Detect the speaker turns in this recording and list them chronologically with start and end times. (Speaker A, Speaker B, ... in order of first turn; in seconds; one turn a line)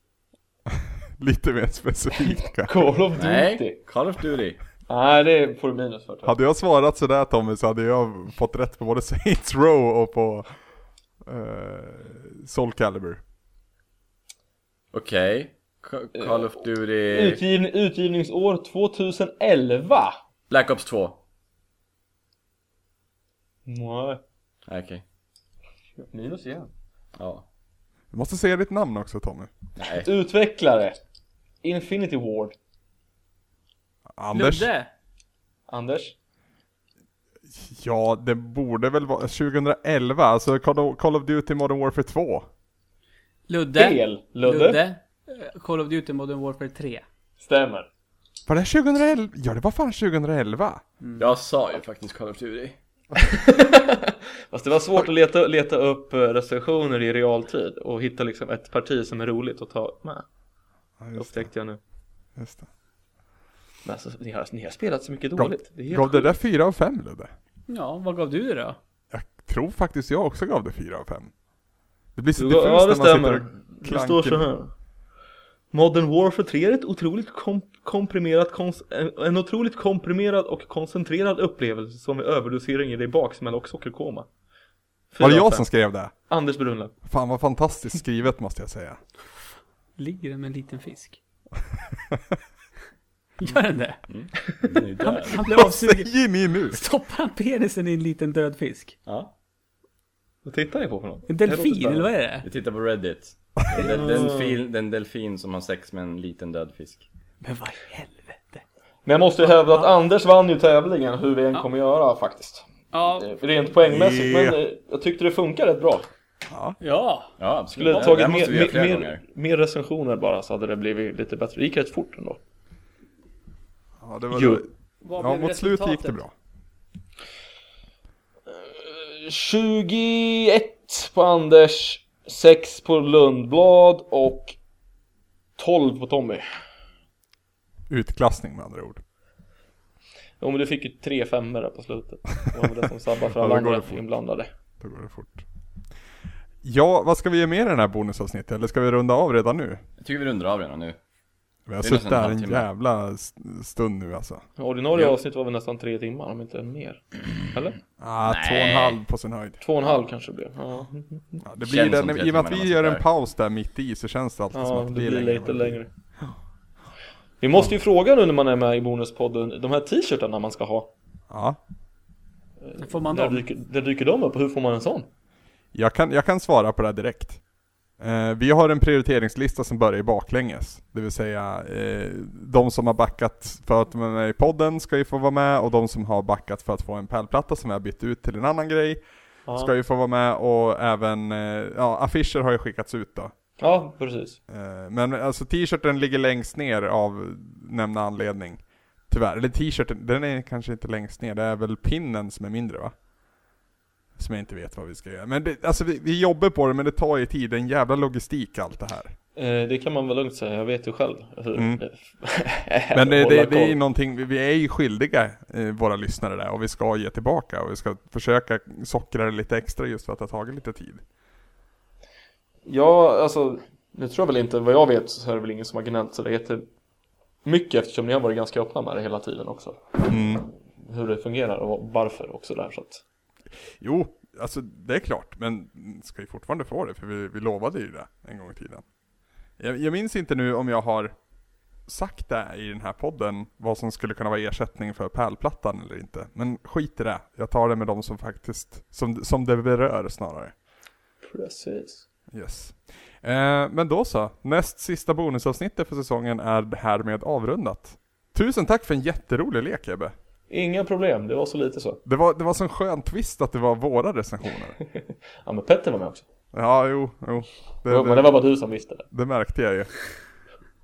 Speaker A: 1.2-2.7
Speaker B: 2.6-3.8
Speaker C: 3.2-4.6
Speaker B: 4.9-6.3
Speaker A: 6.2-10.5
Speaker A: 11.2-13.2
Speaker C: 14.9-17.4
Speaker B: 16.2-16.5
Speaker B: 17.1-20.2
Speaker C: 20.5-21.2
Speaker B: 23.7-24.2
Speaker C: 24.7-25.0
Speaker B: 26.0-26.7
Speaker C: 27.2-27.4
Speaker A: 28.1-29.5
Speaker C: 29.8-30.1
Speaker B: 29.9-31.0
Speaker B: 31.6-32.5
Speaker A: 34.2-34.7
Speaker D: 34.3-34.9
Speaker B: 35.7-36.1
Speaker A: 37.5-42.5
Speaker D: 43.5-47.0
Speaker B: 43.8-44.8
Speaker B: 47.4-47.9
Speaker A: 48.5-50.8
Speaker D: 51.0-51.3
Speaker C: 51.2-52.8
Speaker B: 53.2-60.2
Speaker A: 61.0-61.5
Speaker B: 61.2-61.8
Speaker A: 62.4-62.7
Speaker B: 63.9-66.3
Speaker A: 65.4-67.3
Speaker D: 67.7-68.8
Speaker A: 69.1-71.3
Speaker A: 72.2-74.4
Speaker B: 72.4-74.7
Speaker B: 75.7-84.3
Speaker B: 85.1-85.7
Speaker A: 85.2-86.1
Speaker B: 86.3-86.9
Speaker A: 87.0-89.0
Speaker D: 90.0-91.2
Speaker D: 93.4-94.0
Speaker C: 94.1-95.4
Speaker D: 95.0-96.1
Speaker A: 95.5-96.8
Speaker D: 96.7-99.0
Speaker C: 99.1-99.3
Speaker B: 100.5-102.1
Speaker D: 101.3-102.5
Speaker C: 102.4-107.0
Speaker B: 103.8-104.6
Speaker D: 107.4-108.6
Speaker B: 109.1-112.7
Speaker D: 112.9-113.3
Speaker B: 113.2-116.1
Speaker A: 113.9-114.6
Speaker A: 116.5-116.8
Speaker D: 116.8-118.3
Speaker C: 117.4-119.2
Speaker B: 117.8-122.4
Speaker A: 124.0-126.3
Speaker B: 124.3-124.7
Speaker D: 125.0-126.2
Speaker B: 128.5-134.6
Speaker B: 135.6-136.4
Speaker A: 137.9-139.0
Speaker B: 140.4-144.5
Speaker A: 143.4-144.0
Speaker A: 144.8-145.4
Speaker A: 146.6-149.8
Speaker C: 150.0-151.0
Speaker A: 151.7-154.4
Speaker C: 151.8-152.7
Speaker B: 154.6-157.8
Speaker A: 158.0-159.6
Speaker C: 158.3-159.0
Speaker B: 159.6-161.4
Speaker A: 161.4-166.3
Speaker C: 161.6-163.1
Speaker B: 164.5-165.9
Speaker B: 167.4-170.9
Speaker A: 171.3-171.6
Speaker B: 172.6-175.1
Speaker D: 172.8-173.4
Speaker A: 175.7-177.4
Speaker A: 178.0-189.0
Speaker B: 189.5-189.7
Speaker A: 189.5-193.3
Speaker B: 193.6-194.4
Speaker A: 194.5-202.9
Speaker A: 204.2-209.1
Speaker B: 209.3-213.8
Speaker A: 211.6-211.8
Speaker A: 212.9-221.0
Speaker B: 222.7-226.6
Speaker B: 227.4-233.0
Speaker A: 230.1-230.5
Speaker A: 233.8-238.8
Speaker A: 239.6-241.2
Speaker A: 241.9-250.5
Speaker B: 251.2-252.1
Speaker A: 252.3-260.1
Speaker B: 260.5-262.0
Speaker A: 262.1-264.8
Speaker B: 265.4-266.2
Speaker A: 266.5-268.3
Speaker B: 267.9-269.1
Speaker A: 269.1-269.9